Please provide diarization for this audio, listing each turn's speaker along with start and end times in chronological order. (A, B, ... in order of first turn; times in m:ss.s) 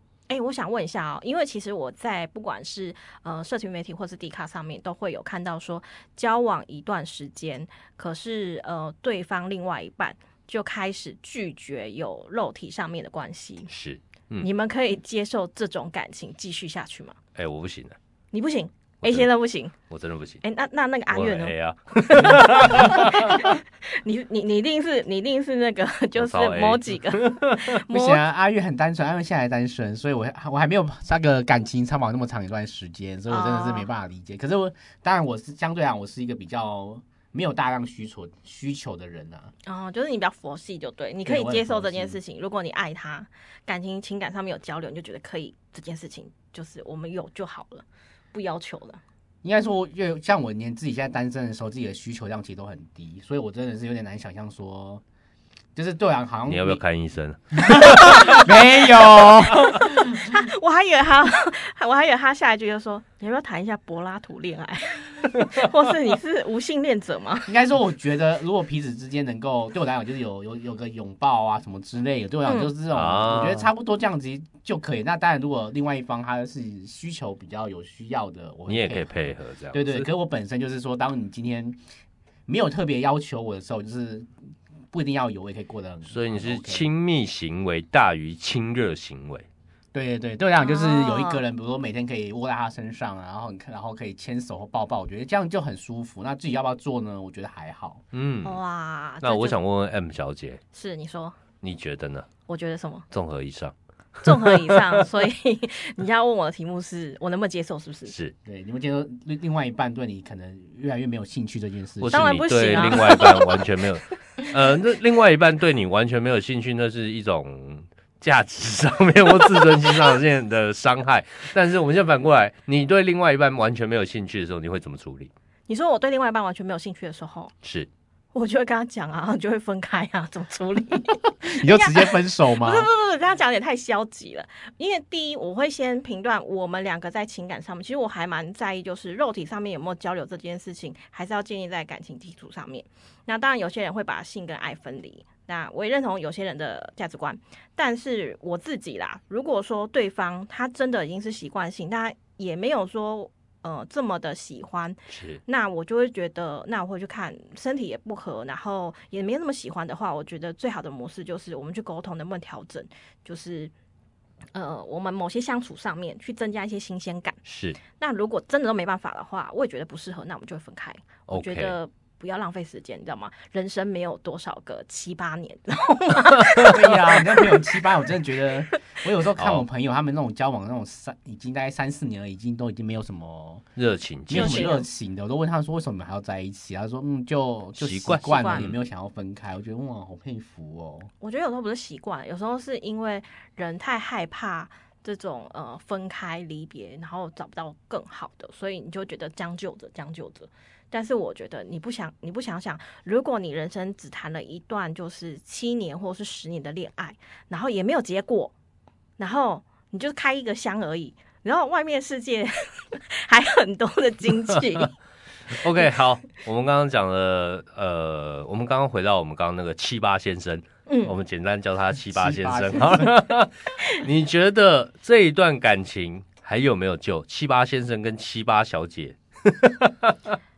0:00.3-0:13.7 A
0:13.7-0:14.5 B
0:14.4-0:17.2 A
0:17.3-0:18.0 B
0:18.3-0:19.7 A
0:19.0-0:19.3 B
0:19.9-0:20.4 B
0:20.4-0:21.5 A
0:21.1-0:23.5 B
0:22.1-0:28.2 A
0:26.1-0:27.8 B
0:27.9-0:39.5 C
0:33.3-0:33.9 A
0:39.6-0:49.0 A
0:41.2-0:42.2 C
0:49.4-0:55.0 C
0:55.7-0:56.8 C
0:56.5-0:58.5 B
0:57.5-1:00.3 C
0:59.1-0:59.5 B
0:59.8-1:07.5 A
1:07.5-1:19.2 C
1:12.4-1:12.7 A
1:12.9-1:13.7 B
1:18.7-1:20.1 B
1:19.7-1:21.8 C
1:22.5-1:24.3 C
1:24.9-1:26.9 C
1:26.1-1:29.4 B
1:29.9-1:38.0 C
1:30.6-1:31.4 A
1:38.1-1:38.6 B
1:38.4-1:39.6 A
1:39.2-1:40.6 B
1:40.7-1:41.4 A
1:41.6-1:42.3 B
1:42.5-1:43.1 A
1:43.1-1:45.0 B
1:44.2-1:48.1 A
1:48.1-1:48.3 B
1:48.4-1:53.0 C
1:52.0-2:05.3 B
1:52.1-1:53.6 A
2:05.7-2:07.5 A
2:07.6-2:07.9 B
2:08.3-2:43.7 A
2:11.2-2:12.9 C
2:35.1-2:35.4 B
2:44.5-2:47.4 A
2:47.4-2:47.8 B
2:48.0-2:57.6 A
2:51.3-2:51.8 B
2:56.6-3:03.6 C
2:59.4-2:59.6 B
3:03.8-3:04.7 B
3:04.3-3:11.1 C
3:04.3-3:04.8 A
3:07.8-3:08.7 B
3:08.2-3:08.7 A
3:11.2-3:28.5 A
3:29.2-3:34.9 A
3:35.5-3:50.1 B
3:40.9-3:41.2 A
3:42.0-3:43.1 C